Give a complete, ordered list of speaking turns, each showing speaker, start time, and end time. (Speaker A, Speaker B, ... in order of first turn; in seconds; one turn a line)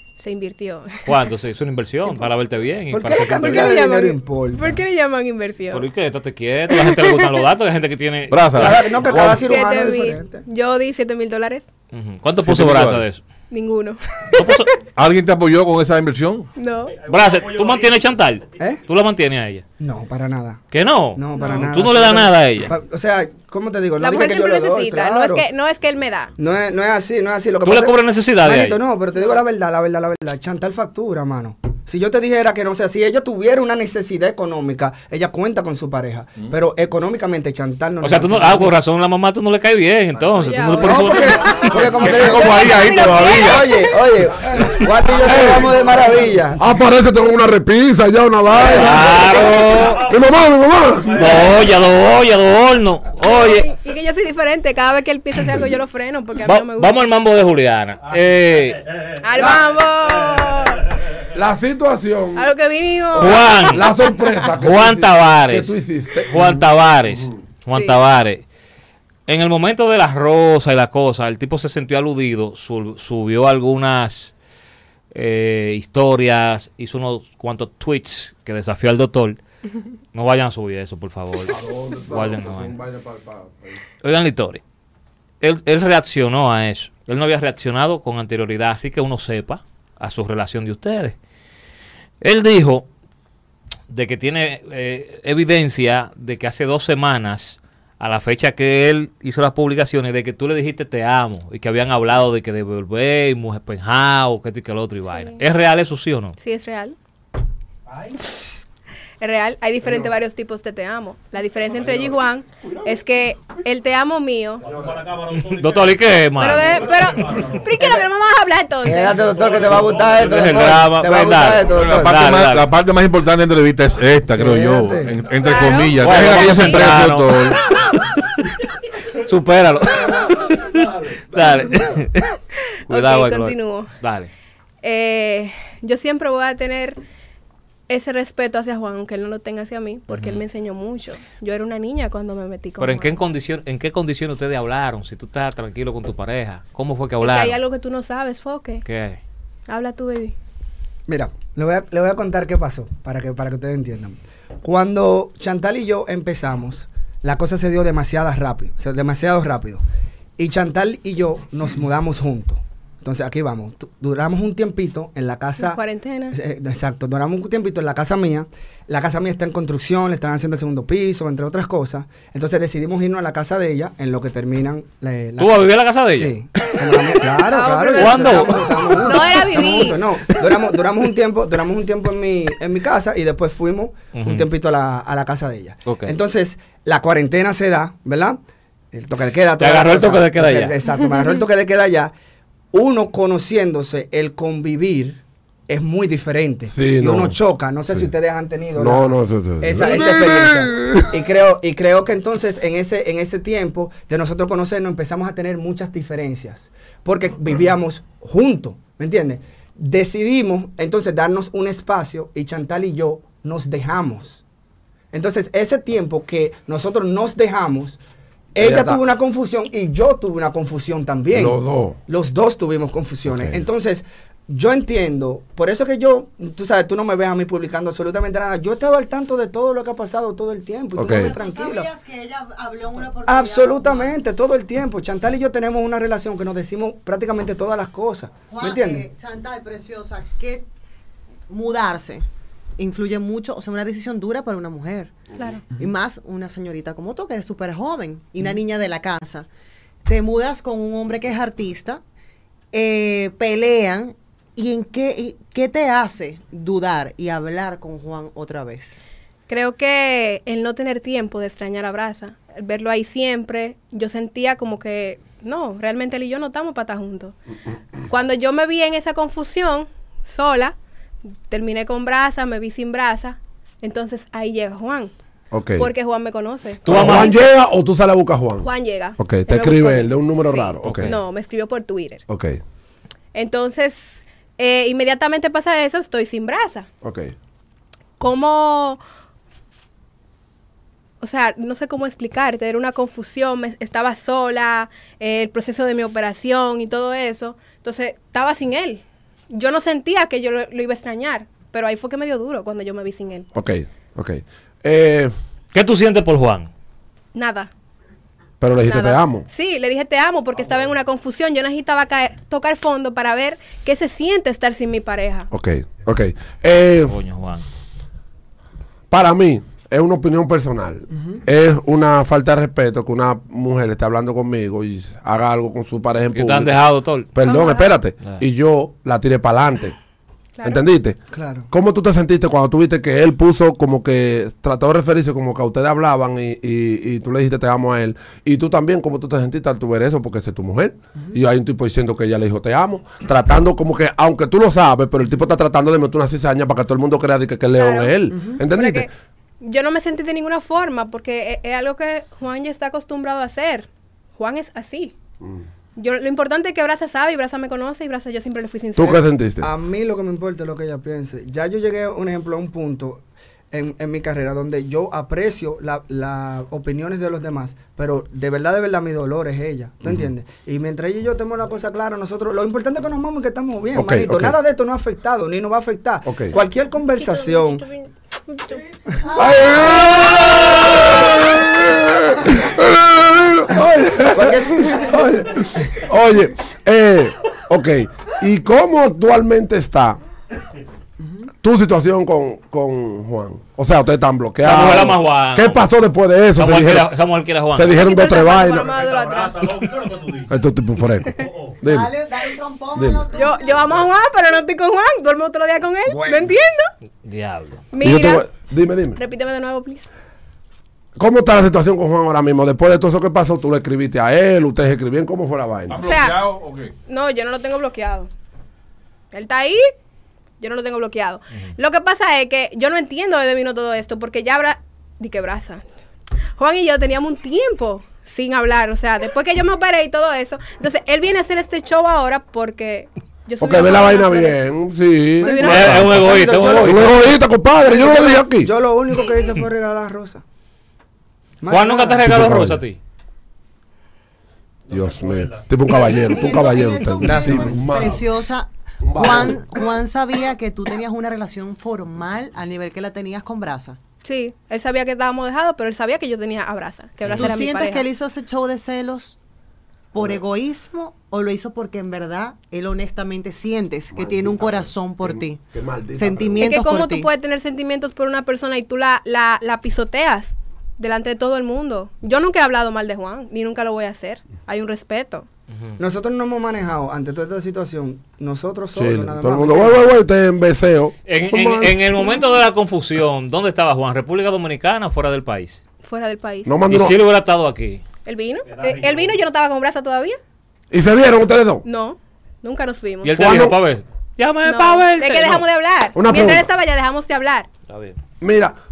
Speaker A: 0.2-1.1
Speaker B: 1.1-3.8
Speaker C: 2.9-4.8
Speaker A: 3.4-5.9
Speaker B: 5.7-9.4
Speaker A: 6.7-7.4
Speaker D: 8.3-9.4
Speaker C: 8.6-10.4
Speaker A: 9.2-11.7
Speaker B: 11.9-13.2
Speaker D: 12.4-13.1
Speaker A: 13.5-14.8
Speaker B: 14.3-14.7
Speaker D: 14.9-16.5
Speaker A: 16.6-16.9
Speaker E: 16.8-18.3
Speaker B: 17.1-19.6
Speaker C: 19.8-20.6
Speaker B: 20.7-22.7
Speaker C: 21.1-25.5
Speaker A: 21.4-21.7
Speaker A: 24.0-26.3
Speaker C: 26.4-38.8
Speaker B: 27.6-28.8
Speaker B: 38.0-41.9
Speaker A: 40.4-43.9
Speaker C: 40.8-46.6
Speaker D: 41.9-43.7
Speaker F: 44.3-51.5
Speaker B: 48.6-50.1
Speaker E: 48.7-51.8
Speaker B: 51.1-53.7
Speaker A: 53.2-57.0
Speaker B: 56.4-58.8
Speaker E: 58.0-59.6
Speaker A: 59.2-60.9
Speaker E: 60.1-60.7
Speaker F: 61.3-62.5
Speaker A: 62.4-64.0
Speaker F: 63.1-67.4
Speaker B: 63.2-63.9
Speaker B: 64.6-65.8
Speaker B: 66.3-68.5
Speaker A: 67.7-68.0
Speaker B: 69.3-74.3
Speaker B: 75.1-79.4
Speaker B: 80.1-82.8
Speaker F: 81.5-83.8
Speaker B: 84.0-84.6
Speaker B: 85.4-91.2
Speaker B: 92.2-92.9
Speaker B: 93.9-106.3
Speaker A: 105.1-105.4
Speaker A: 106.4-107.0
Speaker E: 107.9-108.2
Speaker A: 109.2-114.7
Speaker E: 111.8-112.1
Speaker E: 114.6-117.8
Speaker F: 114.7-114.9
Speaker B: 115.4-116.8
Speaker A: 116.4-119.2
Speaker C: 118.8-122.4
Speaker E: 119.1-120.7
Speaker B: 120.0-122.7
Speaker D: 121.6-127.6
Speaker C: 124.3-125.2
Speaker A: 125.4-127.0
Speaker B: 126.0-127.6
Speaker A: 127.7-128.0
Speaker B: 129.2-132.3
Speaker F: 130.1-131.2
Speaker A: 132.7-133.9
Speaker B: 132.9-134.3
Speaker A: 134.8-137.0
Speaker A: 137.9-143.2
Speaker B: 140.1-140.4
Speaker B: 142.8-147.6
Speaker A: 147.2-148.8
Speaker B: 148.8-149.2
Speaker A: 149.7-150.3
Speaker C: 151.1-159.8
Speaker C: 160.4-165.8
Speaker A: 165.6-166.4
Speaker C: 166.3-188.4
Speaker B: 175.4-176.8
Speaker A: 177.4-180.1
Speaker B: 178.0-178.9
Speaker B: 184.1-184.5
Speaker B: 185.9-186.1
Speaker C: 188.9-192.1
Speaker B: 189.6-190.8
Speaker A: 191.0-191.3
Speaker C: 192.7-214.4
Speaker F: 196.7-197.3
Speaker F: 198.8-201.1
Speaker C: 215.1-218.0
Speaker C: 218.6-231.9
Speaker F: 218.6-219.0
Speaker F: 221.3-222.0
Speaker F: 223.3-223.6
Speaker F: 230.9-231.3
Speaker G: 231.0-234.2
Speaker C: 233.2-239.1
Speaker G: 238.5-240.7
Speaker G: 241.5-242.3
Speaker G: 242.8-245.2
Speaker A: 245.3-245.7
Speaker G: 245.7-249.5
Speaker G: 250.1-252.0
Speaker G: 252.7-259.0
Speaker A: 259.5-267.4
Speaker A: 268.1-270.8
Speaker A: 271.5-275.1
Speaker F: 275.5-275.9
Speaker A: 275.8-277.4
Speaker B: 276.9-277.3
Speaker F: 276.9-281.1
Speaker A: 278.6-282.2
Speaker B: 280.8-281.2
Speaker F: 282.3-282.6
Speaker A: 283.3-286.9
Speaker F: 287.0-287.3
Speaker A: 288.2-289.0
Speaker A: 291.2-303.5
Speaker F: 303.5-305.3
Speaker B: 305.7-306.7
Speaker A: 307.3-307.7
Speaker F: 308.6-309.4
Speaker A: 308.8-315.5
Speaker F: 315.5-317.1
Speaker B: 317.1-317.6
Speaker F: 319.1-326.8
Speaker B: 326.3-327.3
Speaker F: 327.3-329.9
Speaker A: 327.4-328.0
Speaker A: 330.6-330.9
Speaker F: 330.6-331.2
Speaker C: 331.3-331.7
Speaker F: 331.7-349.1
Speaker A: 347.8-349.1
Speaker A: 349.6-355.1
Speaker A: 356.0-359.2
Speaker F: 359.0-359.7
Speaker C: 359.6-377.9
Speaker F: 373.9-374.6
Speaker F: 376.3-376.5
Speaker A: 377.2-378.9
Speaker F: 379.3-390.2
Speaker G: 379.4-380.9
Speaker C: 384.3-385.5
Speaker F: 391.6-397.1
Speaker B: 394.6-395.9
Speaker B: 396.6-398.0
Speaker F: 397.7-398.9
Speaker A: 397.9-399.9
Speaker E: 398.6-400.6
Speaker F: 400.5-402.1
Speaker E: 401.3-401.8
Speaker G: 401.8-404.0
Speaker F: 402.9-403.3
Speaker A: 403.3-406.9
Speaker C: 406.1-406.5
Speaker B: 407.2-407.8
Speaker A: 407.9-408.6
Speaker F: 408.0-409.2
Speaker A: 409.2-410.1
Speaker F: 411.2-416.0
Speaker D: 415.9-416.9
Speaker A: 416.0-416.4
Speaker A: 417.1-418.3
Speaker A: 419.3-419.9
Speaker A: 420.6-425.8
Speaker A: 426.6-434.6
Speaker F: 433.6-436.2
Speaker A: 435.4-436.4
Speaker C: 435.4-440.4
Speaker B: 435.6-437.3
Speaker F: 436.8-438.7
Speaker C: 441.6-442.3
Speaker B: 441.7-443.0
Speaker F: 442.3-442.8
Speaker E: 444.9-445.8
Speaker F: 444.9-448.3
Speaker G: 445.9-454.0
Speaker C: 447.2-447.9
Speaker F: 449.0-449.7
Speaker A: 454.2-458.1
Speaker G: 457.3-459.4
Speaker G: 460.1-467.3
Speaker F: 460.2-460.4
Speaker F: 464.1-466.8
Speaker A: 466.6-475.5
Speaker C: 476.0-480.2
Speaker F: 479.0-482.1
Speaker B: 481.3-485.8
Speaker A: 486.0-486.7
Speaker F: 486.7-487.2
Speaker B: 486.9-488.0
Speaker A: 488.3-490.4
Speaker E: 488.6-489.4
Speaker F: 490.9-491.9
Speaker A: 491.9-493.4
Speaker B: 493.2-495.7
Speaker F: 493.3-493.8
Speaker A: 494.6-497.7
Speaker F: 496.1-496.7
Speaker B: 497.9-498.2
Speaker F: 498.4-498.8